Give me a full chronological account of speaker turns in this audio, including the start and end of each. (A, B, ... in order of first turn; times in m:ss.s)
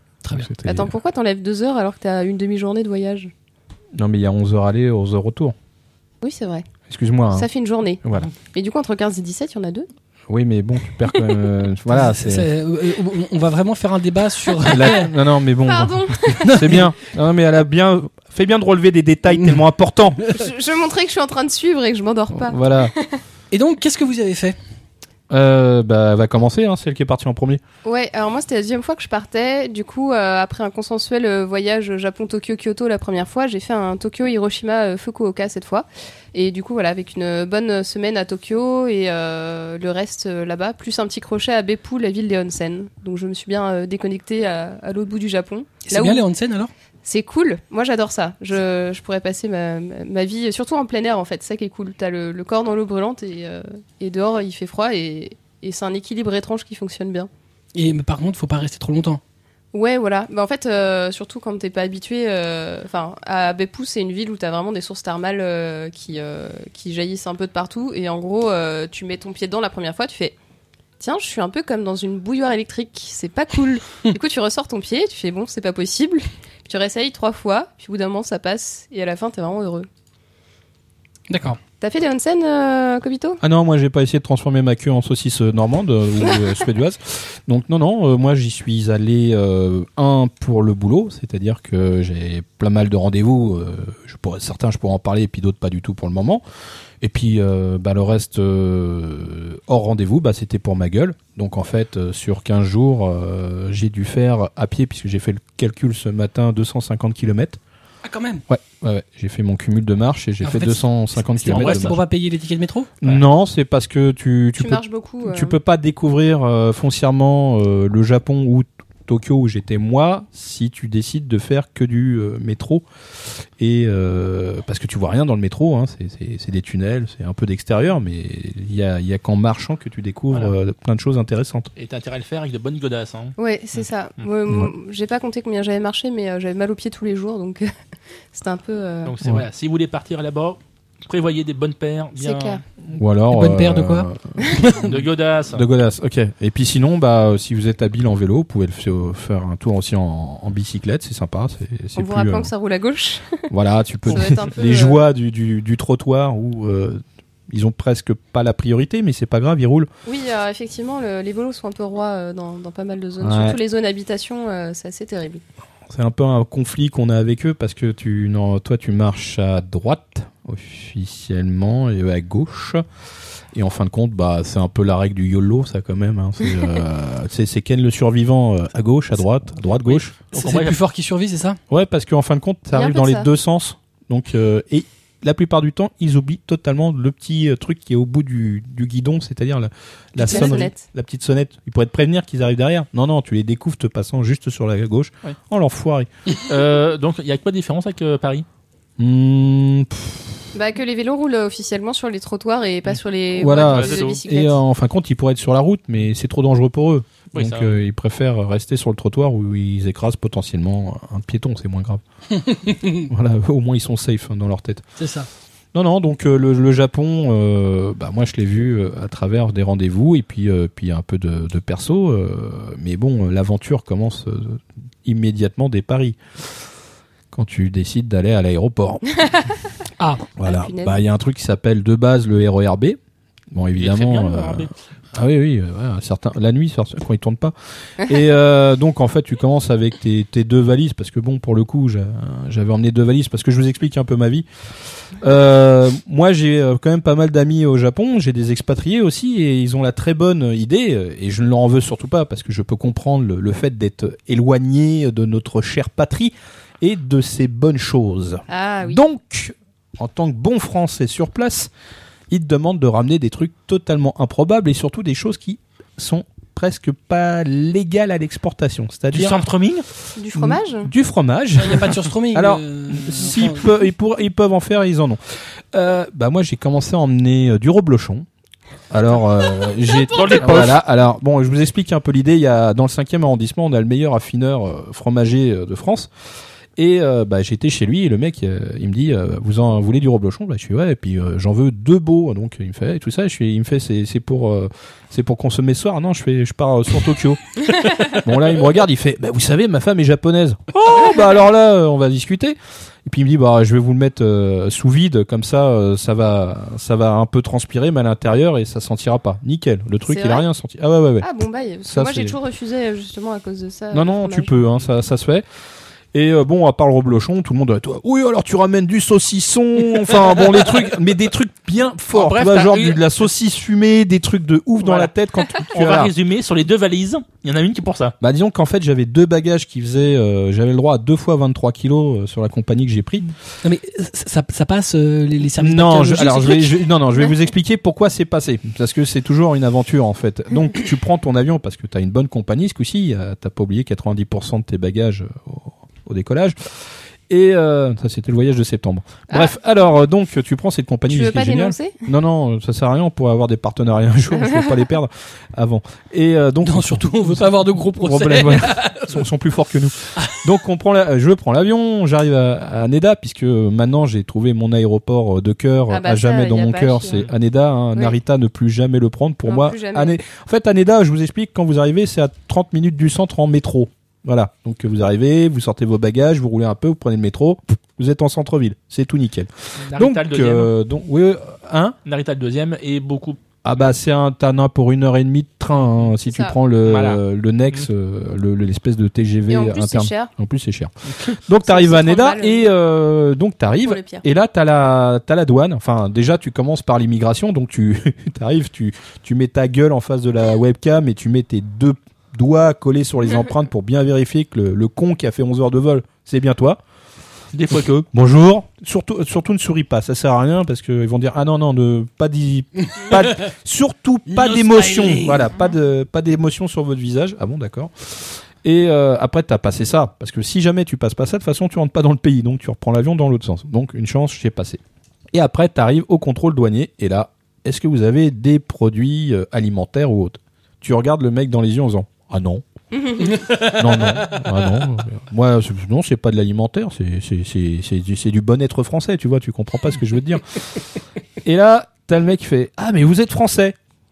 0:00.2-0:00.5 A
0:00.3-0:00.9 B
0:00.6-0:03.3 C
0:04.0-0:05.6 B
0:06.2-0:06.7 C
0:06.9-0:07.5 B
0:07.3-0:09.9 C
0:08.0-0:08.3 B
0:10.3-0:12.5 B
0:11.9-0:15.1 A
0:14.6-0:20.4 B
0:15.6-0:16.8 C
0:16.4-0:16.9 A
0:20.3-0:23.2 C
0:22.3-0:22.9 B
0:23.5-0:24.6 A
0:25.3-0:27.6 B
0:27.8-0:46.2 C
0:45.9-0:46.7 A
0:47.0-0:57.3 C
0:57.8-0:59.2 A
0:59.7-1:10.4 C
1:11.0-1:19.9 C
1:21.3-1:21.6 A
1:21.8-1:23.4 C
1:23.4-1:36.4 B
1:37.0-1:47.6 B
1:48.0-1:48.4 A
1:48.5-1:52.0 B
1:50.4-1:53.1 A
1:51.5-1:52.0 D
1:53.0-2:02.8 B
1:54.6-1:55.6 C
2:03.6-2:11.7 B
2:11.8-2:13.4 D
2:13.4-2:17.7 C
2:18.3-2:19.1 C
2:19.1-2:22.6 D
2:22.2-2:22.6 C
2:22.9-2:24.6 B
2:23.3-2:25.0 A
2:24.8-2:25.6 D
2:25.5-2:32.5 B
2:32.0-2:33.5 C
2:33.5-2:39.9 B
2:34.1-2:35.0 C
2:40.1-2:45.4 C
2:43.2-2:43.6 B
2:45.9-2:52.8 B
2:53.5-3:00.1 B
2:59.8-3:00.8 D
3:00.3-3:01.6 A
3:01.7-3:16.1 B
3:02.7-3:03.3 C
3:10.2-3:10.8 C
3:16.4-3:18.4 D
3:19.0-3:20.3 B
3:20.5-3:24.6 C
3:23.4-3:32.0 B
3:23.5-3:24.2 D
3:27.3-3:27.8 D
3:32.5-3:33.0 A
3:33.1-3:34.8 B
3:35.0-3:35.3 A
3:35.7-3:46.2 B
3:47.3-3:49.5 B
3:50.0-3:50.2 A
3:50.4-3:53.0 B
3:50.4-3:51.0 C
3:53.5-4:04.4 B
3:53.8-3:54.7 D
4:05.2-4:21.7 B
4:18.5-4:19.0 C
4:22.3-4:29.4 B
4:29.1-4:29.8 D
4:30.2-4:30.9 C
4:30.4-4:38.3 B
4:31.6-4:33.7 A
4:38.9-4:46.1 B
4:40.0-4:40.8 D
4:46.8-5:11.3 B
5:10.1-5:10.5 C
5:11.2-5:14.5 C
5:11.9-5:12.4 B
5:13.9-5:15.4 B
5:16.1-5:26.1 B
5:22.1-5:23.0 D
5:24.8-5:28.2 D
5:28.2-5:33.3 B
5:33.6-5:36.8 A
5:35.6-5:46.6 B
5:47.3-6:22.0 B
5:51.1-5:52.0 C
5:56.6-5:59.2 A
6:05.9-6:07.3 C
6:09.5-6:10.2 C
6:19.9-6:20.7 D
6:22.0-6:23.4 D
6:23.6-6:46.8 B
6:26.3-6:26.6 C
6:26.8-6:27.2 D
6:29.5-6:30.3 C
6:31.1-6:31.4 D
6:31.7-6:32.7 C
6:33.8-6:34.2 C
6:47.5-6:48.0 D
6:47.7-7:04.8 B
6:54.3-6:55.5 A
7:05.3-7:12.6 B
7:12.9-7:13.4 C
7:13.4-7:13.8 A
7:13.5-7:20.6 B
7:21.4-7:23.8 B